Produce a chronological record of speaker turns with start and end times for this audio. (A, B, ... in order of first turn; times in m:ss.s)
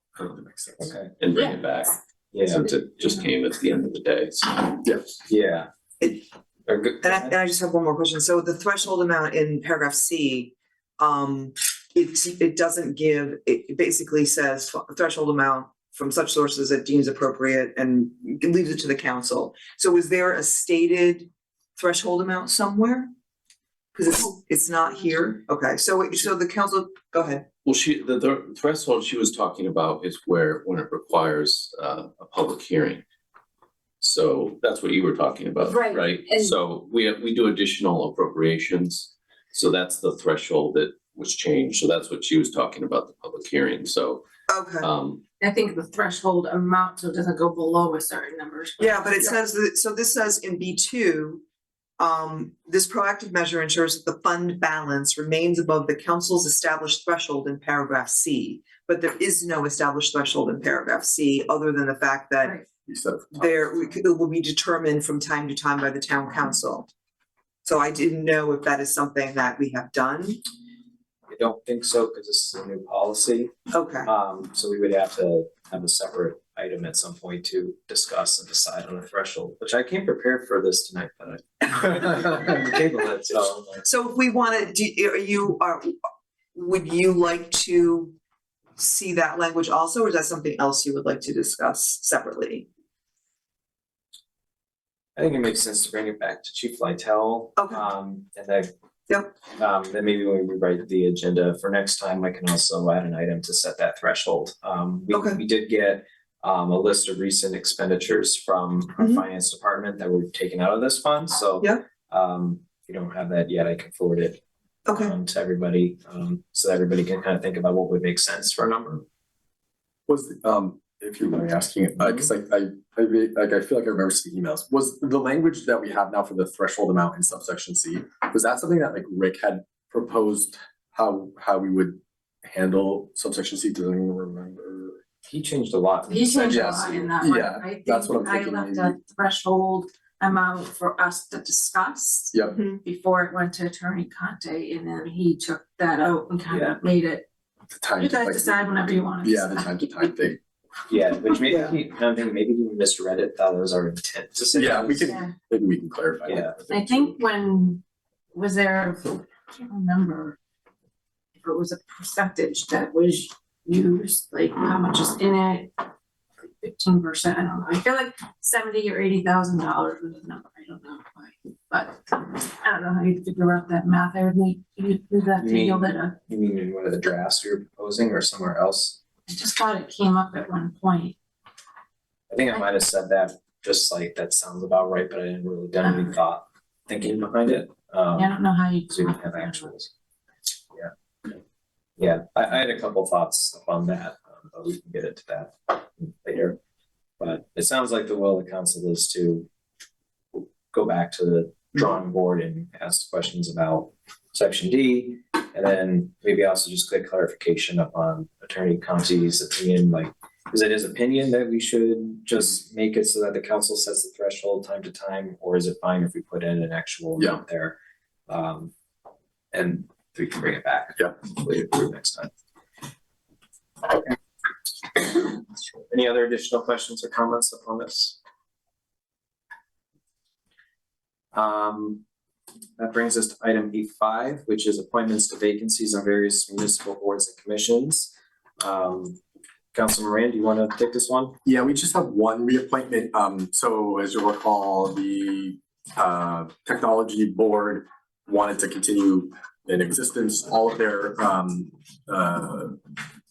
0:00.2-0:00.9 A
0:00.8-0:01.1 B
0:01.2-0:04.8 C
0:02.3-0:02.7 B
0:05.3-0:07.4 B
0:07.0-0:23.1 D
0:23.9-0:27.4 D
0:27.6-0:33.0 C
0:34.0-0:44.2 C
0:35.6-0:36.6 E
0:44.5-0:44.9 D
0:44.8-0:45.2 C
0:45.4-0:49.2 E
0:48.8-0:51.4 D
0:52.0-1:02.6 D
1:02.9-1:04.0 A
1:03.3-1:06.9 D
1:07.6-1:10.4 D
1:11.3-1:13.5 B
1:13.7-1:14.1 D
1:14.0-1:23.9 B
1:23.8-1:25.9 D
1:26.5-1:28.1 D
1:28.8-1:32.7 D
1:35.2-1:38.7 B
1:37.6-1:37.8 D
1:39.1-1:39.4 D
1:39.4-1:59.0 B
1:45.1-1:45.4 D
1:49.0-1:49.2 D
1:54.8-1:55.2 D
2:00.1-2:15.0 A
2:15.2-2:16.6 B
2:16.1-2:27.2 E
2:16.4-2:19.0 A
2:26.5-2:26.8 B
2:27.7-2:30.4 A
2:28.0-2:30.1 E
2:30.9-2:35.2 B
2:31.4-2:31.7 D
2:34.5-2:37.2 A
2:35.1-2:35.3 E
2:36.2-2:36.6 B
2:36.7-2:37.8 E
2:38.3-2:40.4 E
2:41.4-2:45.8 E
2:46.4-2:56.1 E
2:55.3-2:59.0 B
2:59.3-3:01.2 E
3:02.3-3:09.9 B
3:08.2-3:09.7 E
3:10.7-3:11.4 B
3:12.0-3:16.6 B
3:17.2-3:19.5 B
3:20.3-3:37.8 B
3:38.3-3:38.7 B
3:39.5-3:42.3 B
3:43.8-3:44.2 B
3:44.8-3:48.2 B
3:51.3-3:52.0 B
3:52.8-3:59.2 B
3:59.7-4:01.4 B
4:01.4-4:12.8 A